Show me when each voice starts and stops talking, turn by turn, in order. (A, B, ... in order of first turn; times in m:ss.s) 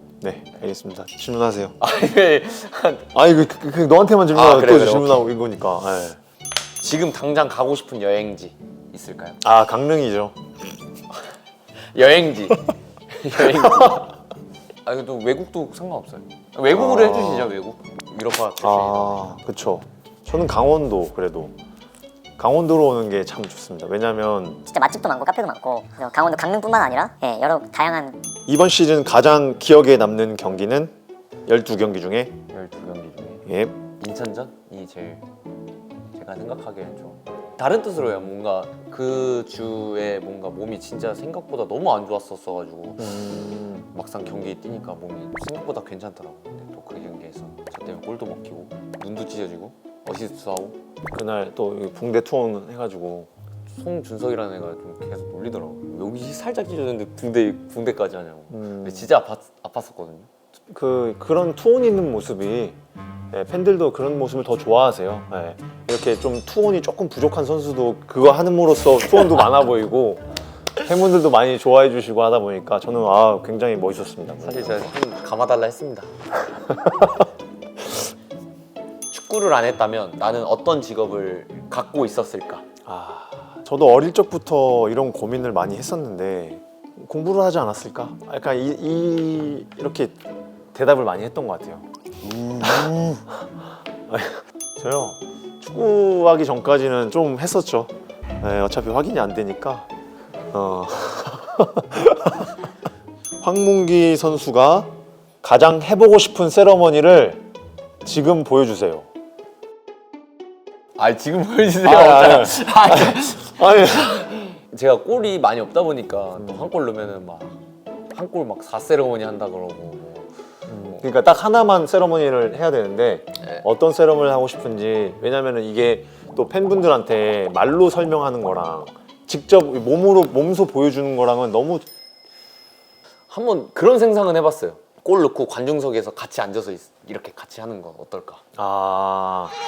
0:00.2-0:01.8 A
0:01.8-0:03.1 B
0:03.1-0:06.2 A
0:04.3-0:05.2 B
0:06.8-0:09.4 B
0:09.4-0:10.4 A
0:11.9-0:14.2 B
0:14.8-0:19.4 B
0:16.7-0:17.5 A
0:18.6-0:21.5 A
0:22.4-0:24.6 A
0:24.7-0:28.2 C
0:28.5-0:30.9 A
0:31.5-0:32.3 A
0:32.5-0:33.5 B
0:33.4-0:33.8 A
0:34.0-0:35.2 B
0:36.1-0:43.3 B
0:43.0-0:43.9 A
0:43.9-0:50.8 B
0:51.1-0:53.3 A
0:53.7-1:00.3 B
0:58.5-0:59.1 A
1:00.7-1:02.8 A
1:03.3-1:14.9 A
1:14.4-1:16.1 B
1:16.7-1:17.1 A
1:19.1-1:22.6 B
1:22.8-1:30.2 A
1:30.7-1:31.9 A
1:32.3-1:33.1 B
1:32.6-1:33.5 A
1:34.1-1:39.9 A
1:40.5-1:42.5 A
1:43.4-1:44.9 A
1:45.4-1:47.4 A
1:48.0-1:49.1 A
1:51.0-1:57.6 B
1:51.8-1:54.3 A
1:58.1-2:01.0 B
2:00.7-2:11.8 A
2:13.3-2:18.4 B
2:18.6-2:19.6 A